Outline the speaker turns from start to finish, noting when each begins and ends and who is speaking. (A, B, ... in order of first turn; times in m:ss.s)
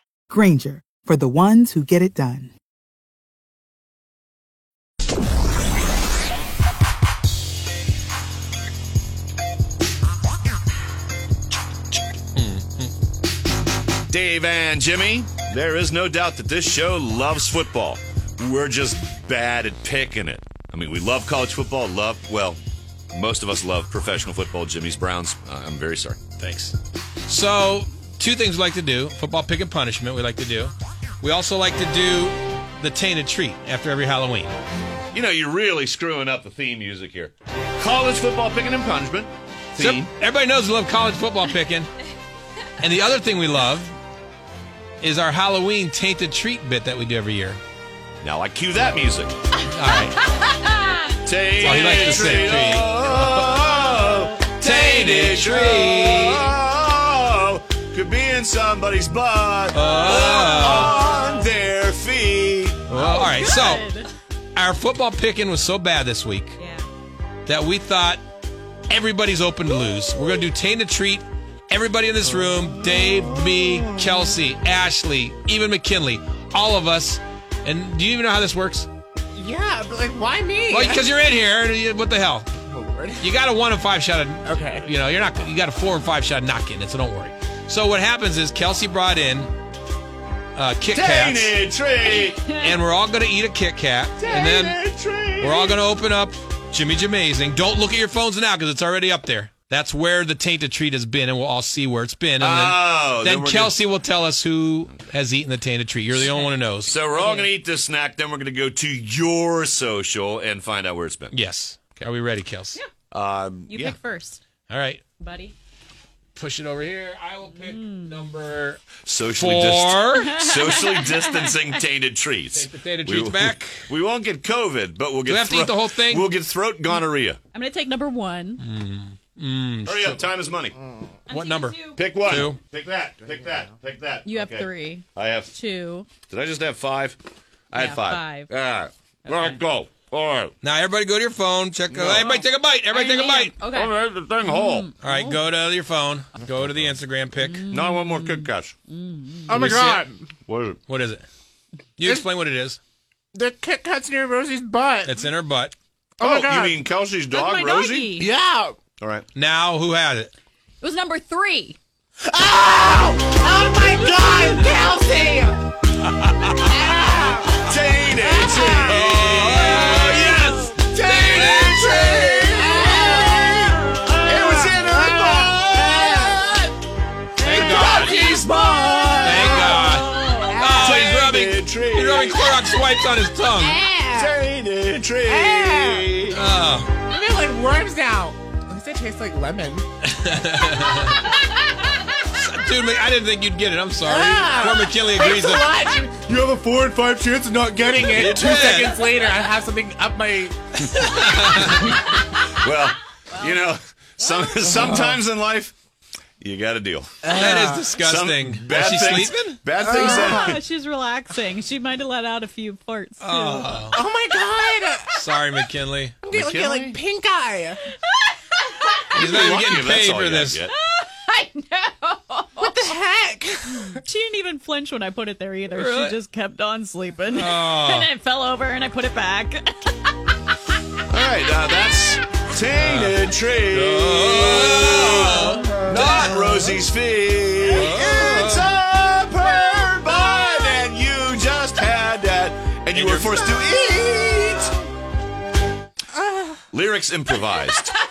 0:00.3-0:02.5 A
0:12.3-0:12.9 B
0:14.1-0:22.6 C
0:23.1-0:26.2 C
0:26.4-0:26.7 B
0:27.3-0:34.5 B
0:35.1-0:40.1 C
0:39.8-0:41.9 B
0:42.8-0:43.9 B
0:45.0-0:47.6 B
0:48.2-0:49.3 C
0:49.7-0:50.2 B
0:50.4-0:51.1 D
0:51.2-1:02.8 C
0:51.6-0:53.6 B
0:54.6-0:56.4 B
0:59.7-1:01.0 B
0:59.8-1:01.2 D
1:02.9-1:03.8 B
1:02.9-1:04.1 D
1:04.6-1:06.6 B
1:06.6-1:06.9 D
1:07.4-1:08.2 B
1:08.9-1:18.9 B
1:19.3-1:21.0 E
1:20.7-1:22.5 B
1:22.7-1:23.3 E
1:23.2-1:29.5 B
1:24.4-1:24.9 E
1:30.6-1:31.5 B
1:30.9-1:32.4 C
1:32.0-1:32.8 D
1:32.6-1:34.8 B
1:34.2-1:35.8 C
1:35.4-1:47.0 B
1:42.4-1:43.8 C
1:46.8-1:51.3 C
1:47.1-1:47.4 D
1:51.3-1:52.8 B
1:53.1-1:54.0 C
1:53.7-1:54.4 D
1:54.7-1:55.0 B
1:55.2-1:55.6 D
1:56.3-2:00.4 B
1:57.5-1:58.3 D
1:59.0-2:07.4 C
2:00.2-2:01.8 D
2:02.5-2:03.9 B
2:05.2-2:06.2 B
2:07.5-2:08.6 D
2:08.6-2:10.2 B
2:09.8-2:10.8 C
2:11.3-2:12.1 D
2:11.3-2:12.6 B
2:12.0-2:15.5 C
2:14.2-2:16.1 D
2:16.3-2:17.2 C
2:17.7-2:20.5 C
2:17.8-2:18.5 D
2:19.2-2:19.6 D
2:20.6-2:23.6 B
2:21.9-2:22.3 C
2:22.2-2:25.4 D
2:23.7-2:24.9 C
2:25.0-2:27.7 B
2:27.4-2:29.6 D
2:27.7-2:28.8 C
2:29.5-2:30.3 E
2:29.6-2:30.0 B
2:30.5-2:30.8 C
2:30.9-2:31.2 B
2:32.0-2:32.8 B
2:32.0-2:32.3 E
2:33.3-2:35.2 E
2:35.0-2:35.8 B
2:36.2-2:36.8 E
2:36.2-2:38.2 C
2:37.3-2:38.3 D
2:38.2-2:38.8 E
2:39.0-2:39.2 C
2:39.3-2:40.3 B
2:40.8-2:41.8 D
2:42.2-2:45.6 E
2:44.0-2:44.8 D
2:46.2-2:46.5 B
2:46.6-2:47.6 E
2:47.6-2:56.7 C
2:48.2-2:48.8 D
2:48.6-2:52.5 B
2:50.5-2:50.8 E
2:51.4-2:56.2 E
2:52.5-2:54.7 D
2:55.9-2:56.3 D
2:57.4-2:58.1 B
2:57.4-3:00.7 D
2:57.4-2:59.8 C
2:58.1-2:58.5 E
2:59.2-3:01.1 E
2:59.2-3:03.8 B
3:00.8-3:02.6 C
3:03.5-3:04.4 E
3:04.1-3:06.4 C
3:05.2-3:06.2 E
3:06.3-3:06.9 B
3:07.1-3:09.8 E
3:10.0-3:11.2 B
3:12.2-3:15.7 B
3:14.0-3:20.7 E
3:18.1-3:19.0 B
3:18.2-3:18.4 C
3:20.8-3:22.0 B
3:21.5-3:22.1 E
3:22.5-3:25.8 C
3:23.3-3:24.8 D
3:24.8-3:25.1 E
3:26.4-3:30.6 C
3:27.2-3:27.9 E
3:27.3-3:29.6 B
3:29.8-3:30.6 E
3:29.8-3:34.0 D
3:33.2-3:34.0 B
3:33.9-3:35.2 E
3:35.1-3:36.2 B
3:36.2-3:37.8 E
3:36.3-3:37.0 C
3:38.1-3:39.6 D
3:39.1-3:40.6 B
3:39.2-3:40.7 C
3:40.7-3:42.8 D
3:42.6-3:44.0 E
3:43.8-3:50.3 D
3:45.7-3:46.2 B
3:47.3-3:48.1 B
3:51.1-4:04.8 C
3:52.8-3:53.2 B
3:53.7-3:56.6 B
3:57.7-3:58.7 B
4:02.9-4:03.5 B
4:06.1-4:06.6 E
4:06.7-4:08.0 C